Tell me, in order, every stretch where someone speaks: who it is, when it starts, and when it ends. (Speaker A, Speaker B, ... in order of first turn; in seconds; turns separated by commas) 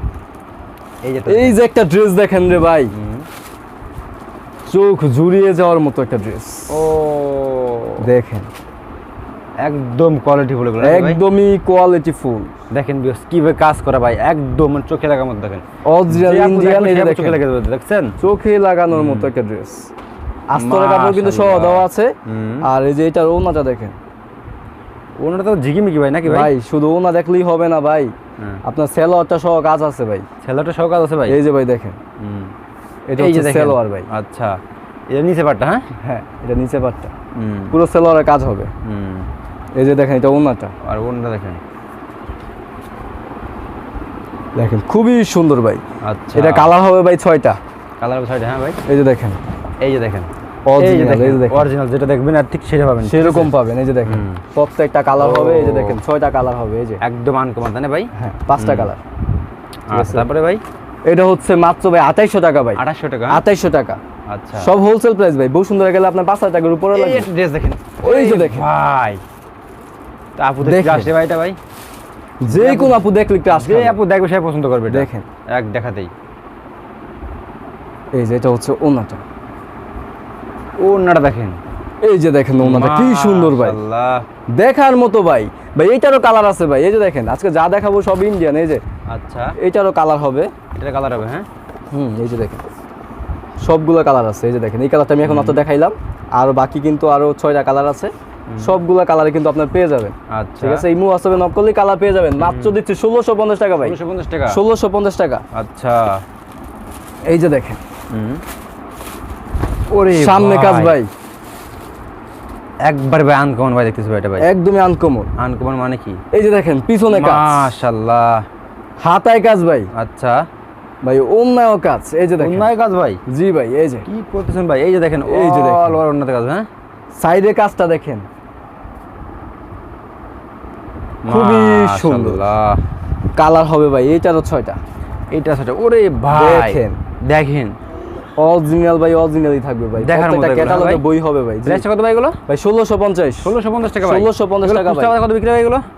Speaker A: 1.0-1.6, Speaker B: 1.3-2.9, Speaker A: 2.9-3.3, Speaker B: 4.7-6.9, Speaker A: 6.7-8.1, Speaker B: 8.0-8.5, Speaker A: 9.6-11.2, Speaker B: 10.8-12.5, Speaker A: 12.7-18.1, Speaker B: 15.8-17.4, Speaker B: 18.2-19.9, Speaker A: 18.9-19.3, Speaker B: 20.5-24.0, Speaker A: 20.5-22.6, Speaker A: 25.2-26.5, Speaker B: 26.2-30.2, Speaker A: 30.4-31.4, Speaker B: 31.3-32.0, Speaker A: 32.2-32.5, Speaker B: 33.1-34.1, Speaker A: 33.2-34.6, Speaker A: 35.1-35.9, Speaker B: 36.0-37.1, Speaker A: 37.3-37.8, Speaker B: 37.7-38.7, Speaker A: 38.8-39.3, Speaker B: 39.8-40.7, Speaker A: 40.8-41.6, Speaker B: 44.5-45.8, Speaker A: 46.0-46.7, Speaker B: 46.3-47.6, Speaker A: 48.0-48.8, Speaker B: 48.9-49.4, Speaker A: 49.8-53.5, Speaker B: 50.6-51.6, Speaker B: 53.0-57.0, Speaker A: 54.0-54.4, Speaker A: 55.2-56.0, Speaker A: 57.0-58.9, Speaker B: 58.1-59.0, Speaker A: 59.9-60.6, Speaker B: 59.9-60.2, Speaker B: 61.0-64.0, Speaker A: 62.8-63.4, Speaker A: 64.3-64.7, Speaker B: 64.6-67.3, Speaker A: 66.9-69.2, Speaker B: 68.0-68.6, Speaker A: 70.4-71.6, Speaker B: 70.6-71.1, Speaker B: 72.4-74.0, Speaker A: 72.5-76.1, Speaker B: 74.9-75.2, Speaker B: 78.1-79.2, Speaker A: 80.8-81.6, Speaker B: 82.0-83.8, Speaker A: 82.6-84.2, Speaker B: 84.5-88.8, Speaker A: 89.1-89.5, Speaker B: 89.6-90.5, Speaker A: 90.7-91.5, Speaker B: 91.9-92.7, Speaker B: 93.6-104.0, Speaker A: 95.2-95.6, Speaker A: 98.5-98.8, Speaker A: 100.3-100.8, Speaker A: 102.4-102.7, Speaker A: 103.8-104.6, Speaker B: 104.5-105.4, Speaker A: 105.5-106.2, Speaker B: 107.3-107.8, Speaker A: 108.1-108.4, Speaker A: 109.9-111.0, Speaker B: 110.1-111.1, Speaker A: 112.8-114.5, Speaker B: 114.4-115.3, Speaker A: 115.3-116.2, Speaker B: 116.3-117.7, Speaker A: 117.1-118.4, Speaker B: 119.0-119.9, Speaker A: 119.9-120.4, Speaker B: 121.0-122.7, Speaker A: 122.4-123.2, Speaker B: 123.3-124.0, Speaker A: 124.1-126.7, Speaker B: 125.2-126.0, Speaker B: 127.1-128.3, Speaker A: 131.2-132.8, Speaker B: 131.3-132.4, Speaker B: 133.3-134.8, Speaker A: 135.3-137.8, Speaker B: 136.3-137.0, Speaker B: 138.4-141.8, Speaker A: 140.0-141.0, Speaker A: 141.6-142.4, Speaker B: 142.5-145.1, Speaker A: 143.4-145.8